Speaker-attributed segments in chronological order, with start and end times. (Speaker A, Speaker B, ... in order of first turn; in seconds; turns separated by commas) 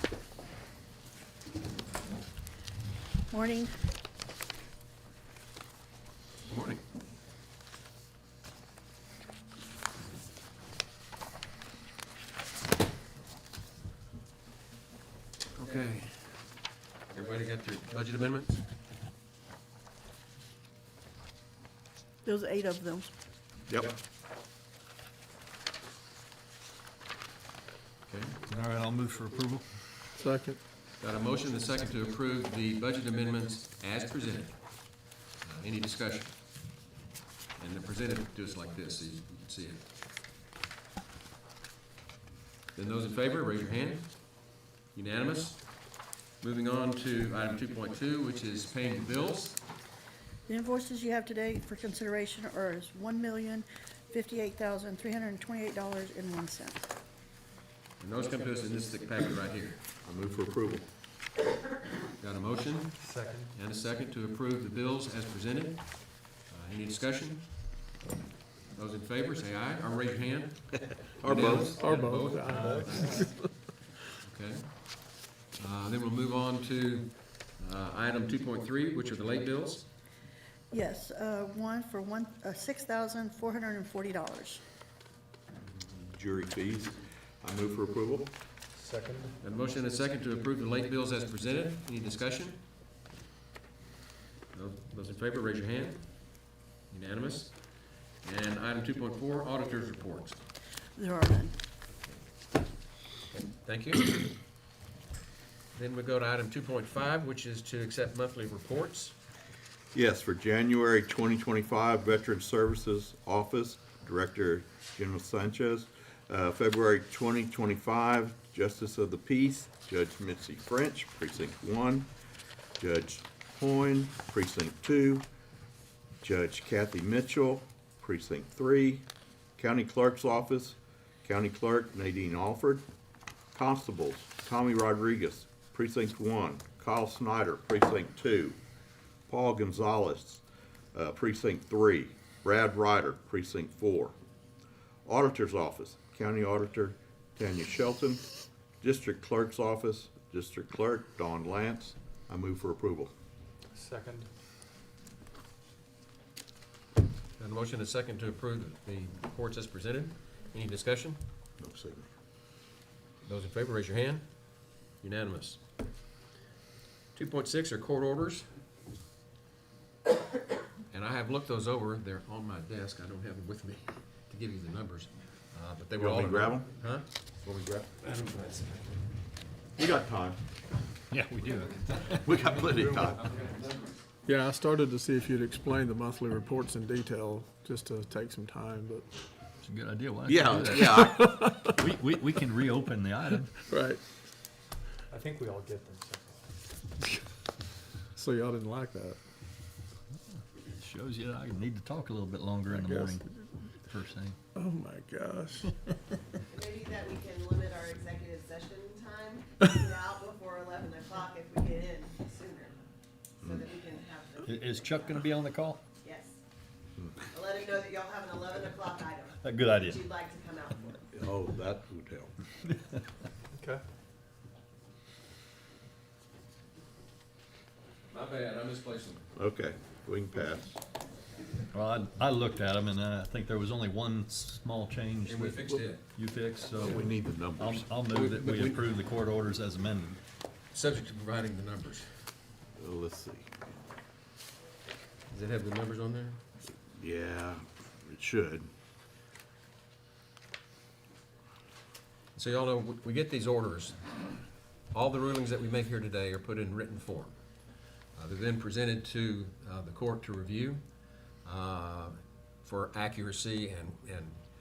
Speaker A: 3.3-3.7, Speaker B: 6.5-6.8, Speaker B: 15.5-16.3, Speaker B: 17.1-18.6, Speaker A: 22.2-23.1, Speaker C: 23.7-23.9, Speaker B: 28.0-28.4, Speaker D: 28.5-29.6, Speaker E: 30.1-30.6, Speaker B: 31.0-36.3, Speaker B: 37.6-39.8, Speaker B: 42.7-49.6, Speaker A: 50.5-56.9, Speaker B: 58.0-59.8, Speaker C: 60.0-60.8, Speaker B: 62.2-67.7, Speaker F: 63.0-63.5, Speaker B: 68.7-73.3, Speaker E: 71.2-73.4, Speaker F: 72.7-73.1, Speaker B: 74.2-79.8, Speaker A: 80.7-84.6, Speaker C: 85.8-88.3, Speaker F: 88.8-89.3, Speaker B: 89.4-92.6, Speaker B: 94.5-100.4, Speaker A: 101.0-101.5, Speaker B: 103.3-104.3, Speaker B: 105.7-109.1, Speaker C: 109.9-122.1, Speaker C: 122.8-125.2, Speaker C: 126.2-132.9, Speaker C: 133.5-138.6, Speaker C: 139.3-144.1, Speaker C: 145.1-148.2, Speaker C: 148.8-153.1, Speaker F: 153.7-154.3, Speaker B: 157.4-161.2, Speaker C: 161.6-162.1, Speaker B: 163.2-164.3, Speaker B: 165.0-165.6, Speaker B: 167.1-168.5, Speaker B: 170.9-177.1, Speaker C: 176.0-176.7, Speaker C: 177.4-177.9, Speaker B: 178.0-178.9, Speaker C: 179.8-180.4, Speaker D: 181.1-182.3, Speaker C: 182.2-183.3, Speaker B: 183.0-183.7, Speaker E: 184.2-189.1, Speaker D: 189.6-193.5, Speaker C: 190.2-191.2, Speaker E: 191.0-191.7, Speaker E: 193.7-194.0, Speaker F: 195.1-196.3, Speaker E: 198.1-199.2, Speaker D: 200.8-204.4, Speaker E: 202.8-203.2, Speaker E: 204.5-205.7, Speaker G: 206.5-212.7, Speaker G: 213.4-215.3, Speaker D: 214.4-215.8, Speaker G: 216.0-216.4, Speaker G: 217.3-221.1, Speaker D: 219.4-220.0, Speaker C: 221.1-222.3, Speaker B: 228.1-229.2, Speaker C: 229.3-230.8, Speaker D: 231.7-240.2, Speaker B: 235.2-236.0, Speaker C: 236.8-237.8, Speaker B: 238.1-238.8, Speaker B: 240.7-242.1, Speaker C: 242.8-243.6, Speaker B: 245.3-246.4, Speaker C: 246.9-248.7, Speaker B: 252.3-254.0, Speaker B: 254.9-257.3, Speaker B: 258.1-260.8, Speaker B: 261.4-264.4